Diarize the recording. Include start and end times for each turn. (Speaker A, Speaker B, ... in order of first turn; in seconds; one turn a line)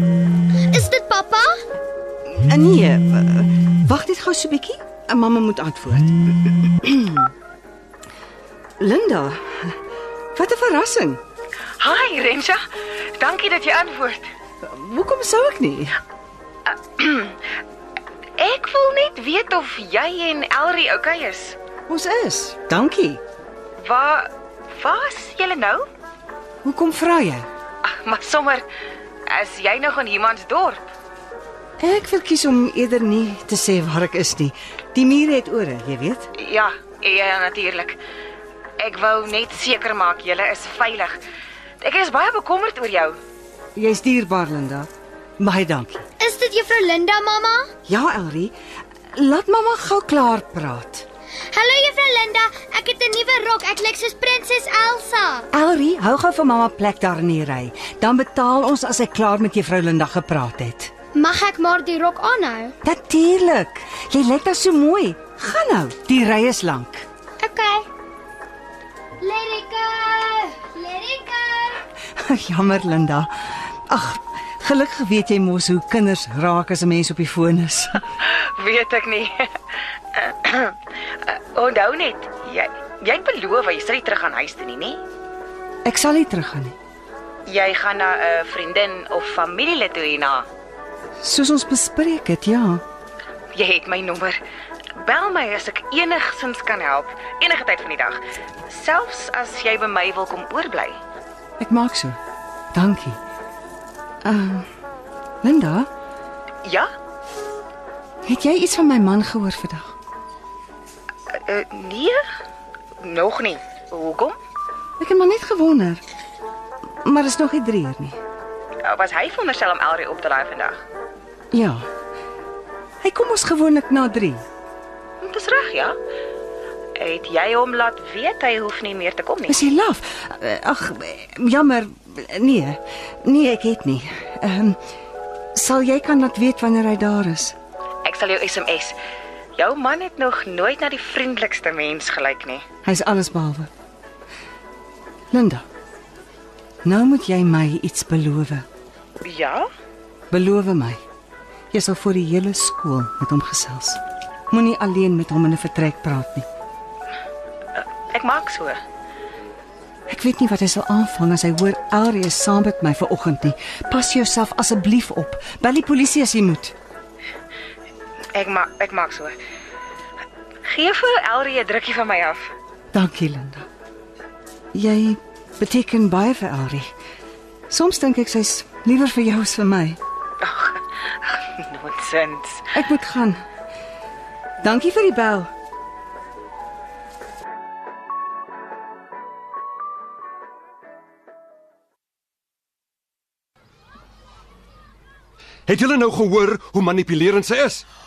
Speaker A: 0.7-1.6
Speaker B: 2.3-7.3
Speaker B: 8.8-9.8
Speaker B: 10.3-11.2
Speaker C: 11.8-14.3
Speaker B: 14.6-16.0
Speaker C: 16.7-17.4
Speaker C: 18.4-21.6
Speaker B: 21.9-23.2
Speaker C: 23.8-25.9
Speaker B: 26.6-27.5
Speaker C: 27.8-28.7
Speaker C: 29.3-30.9
Speaker B: 31.8-36.3
Speaker C: 36.3-38.0
Speaker C: 38.8-41.2
Speaker C: 41.8-43.2
Speaker B: 43.8-46.0
Speaker A: 46.2-47.7
Speaker B: 47.9-48.5
Speaker B: 49.1-51.0
Speaker A: 51.5-55.5
Speaker B: 55.5-60.9
Speaker A: 61.1-62.7
Speaker B: 62.8-67.0
Speaker A: 67.4-67.9
Speaker A: 69.2-71.8
Speaker B: 72.1-78.0
Speaker C: 78.2-79.5
Speaker C: 80.1-85.0
Speaker B: 85.8-86.8
Speaker C: 87.5-90.5
Speaker B: 91.2-92.8
Speaker C: 93.5-94.4
Speaker C: 95.0-101.0
Speaker B: 101.6-102.2
Speaker B: 102.7-103.2
Speaker B: 104.2-104.7
Speaker B: 105.4-105.9
Speaker C: 106.6-106.9
Speaker B: 108.2-109.9
Speaker C: 111.3-112.2
Speaker C: 113.0-114.4
Speaker B: 115.0-116.0
Speaker B: 117.0-118.2
Speaker C: 118.8-120.8
Speaker B: 121.5-121.9
Speaker B: 123.0-124.4
Speaker C: 125.2-126.0
Speaker C: 127.0-129.7
Speaker B: 129.5-134.8
Speaker B: 135.6-137.6
Speaker C: 138.0-139.0
Speaker C: 139.6-142.7
Speaker B: 142.8-143.7
Speaker B: 145.3-145.6
Speaker B: 146.8-148.7
Speaker C: 149.2-149.7
Speaker B: 150.3-151.0
Speaker B: 151.7-154.0
Speaker B: 154.5-156.5
Speaker C: 157.8-158.8
Speaker B: 160.1-166.7
Speaker C: 168.3-169.3
Speaker C: 170.7-172.4
Speaker B: 172.9-173.7
Speaker B: 174.7-176.9
Speaker B: 177.7-180.0
Speaker C: 180.4-182.7
Speaker B: 182.7-183.4
Speaker B: 184.6-185.5
Speaker D: 195.7-197.8